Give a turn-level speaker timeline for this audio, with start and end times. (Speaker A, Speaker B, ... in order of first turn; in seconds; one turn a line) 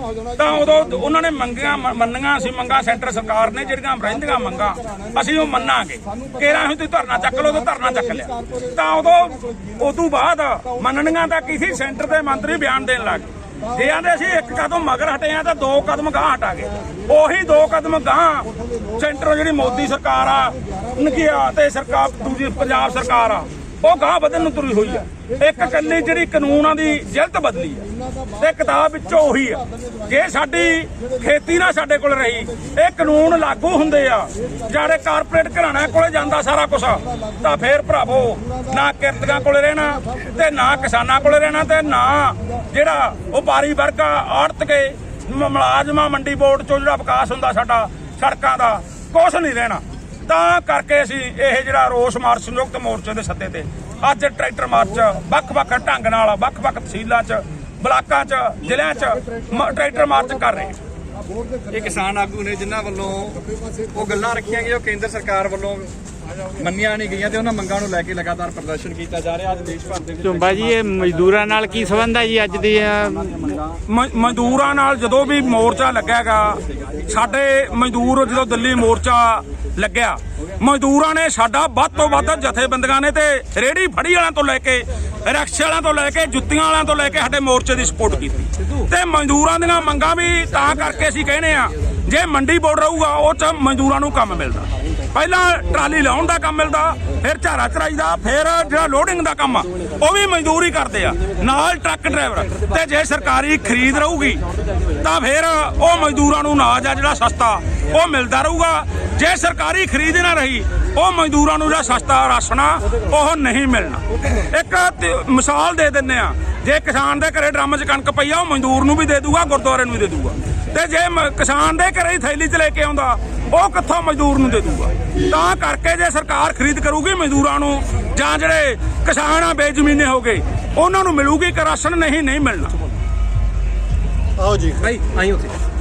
Speaker A: 0.4-60.8
Speaker B: 61.7-63.4
Speaker B: 63.9-65.9
Speaker B: 66.5-71.1
Speaker C: 70.3-73.4
Speaker B: 73.3-73.6
Speaker A: 73.9-132.8
Speaker B: 134.7-135.5